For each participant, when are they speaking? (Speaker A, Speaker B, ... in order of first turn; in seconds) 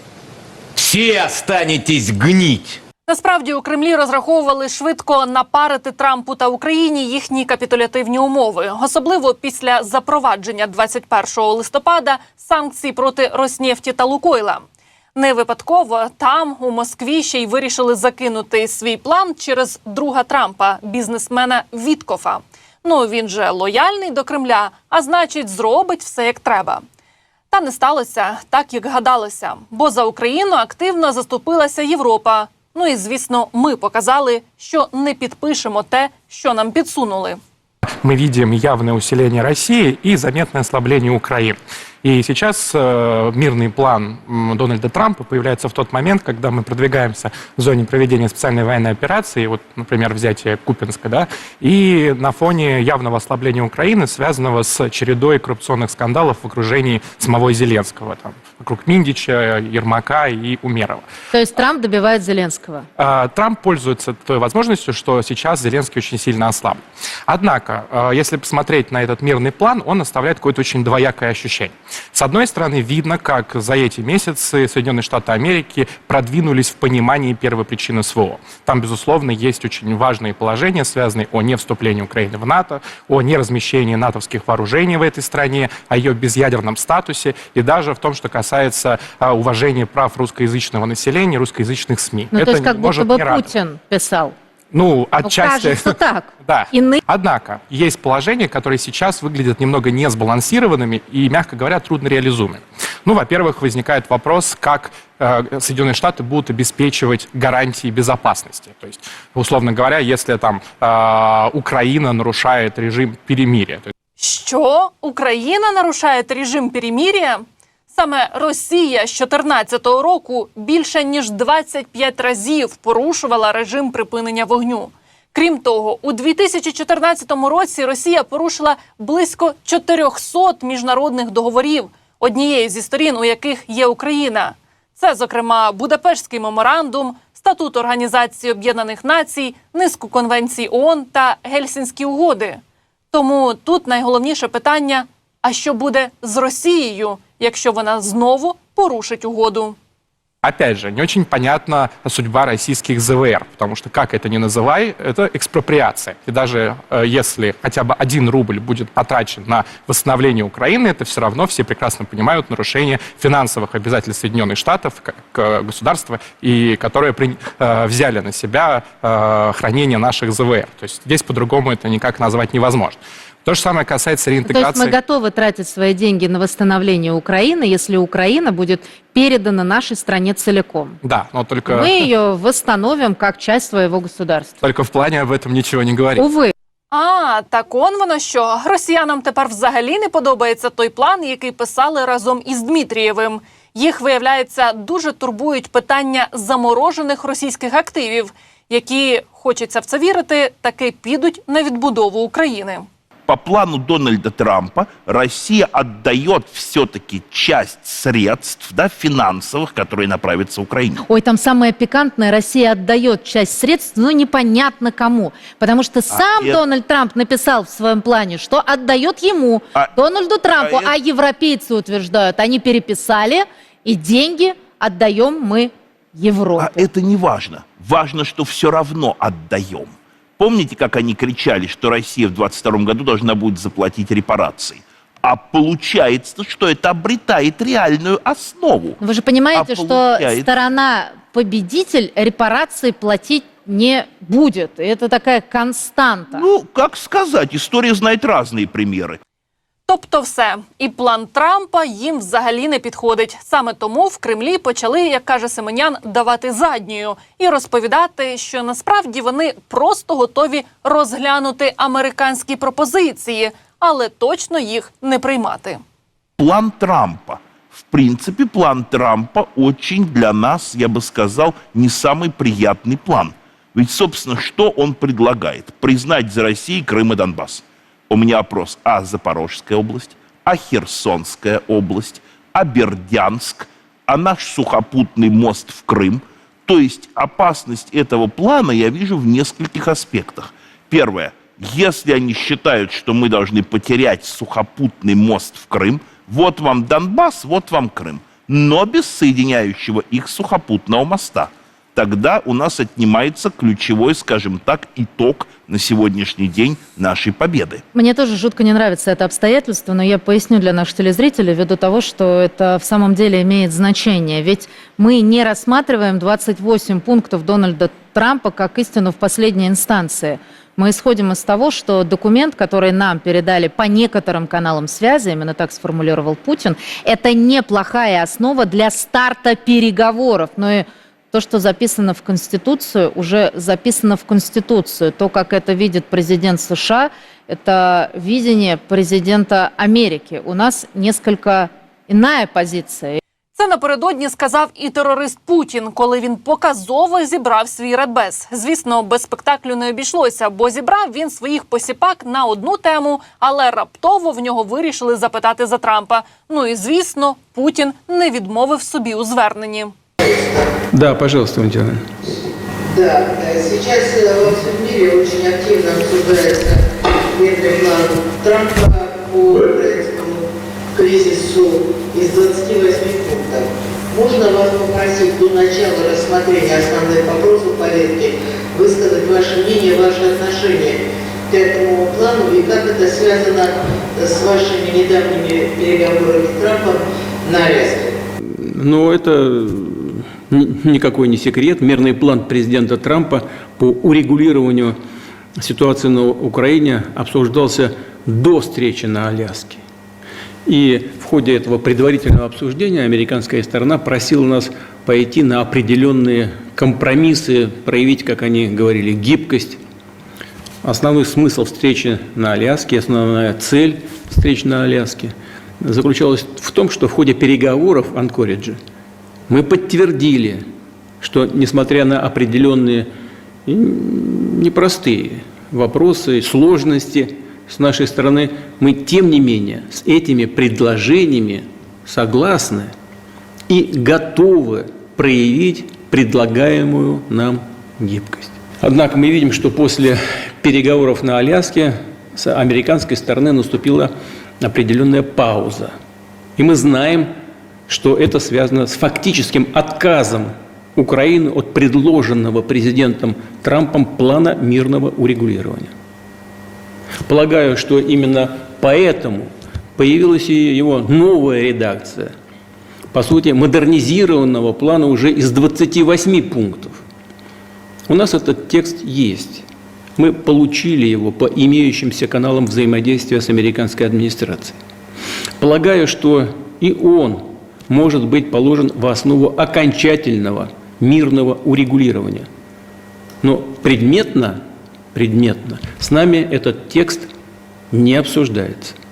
Speaker A: 0.8-2.8
Speaker B: 3.1-14.6, 15.2-26.8, 27.5-37.4, 114.2-142.6, 143.1-149.8, 186.9-202.9, 249.9-265.8, 343.6-359.9
Speaker C: 38.0-61.0, 63.0-93.5, 94.7-113.9, 150.4-175.0, 181.0-182.0, 184.6-186.2
Speaker D: 61.3-62.9, 92.3-94.3, 95.2-97.0, 174.4-181.0, 181.7-184.6, 186.2-186.5, 211.1-226.9, 239.0-246.5, 307.9-343.2
Speaker E: 203.3-211.0, 216.1-216.6, 220.6-220.9, 226.6-239.0, 239.6-240.5, 246.3-249.2, 266.4-307.8
Speaker F: 360.2-360.7, 362.8-388.2
Speaker G: 360.9-362.4, 388.4-395.0, 395.6-399.8, 400.7-409.8, 410.8-418.8, 419.5-420.6, 421.2-423.1, 423.7-432.9, 433.7-445.9, 446.6-447.3, 447.9-455.9, 457.3-462.3, 463.1-467.0, 468.1-469.6, 470.2-474.8, 475.6-482.5, 483.4-484.6, 485.1-487.3, 487.9-489.0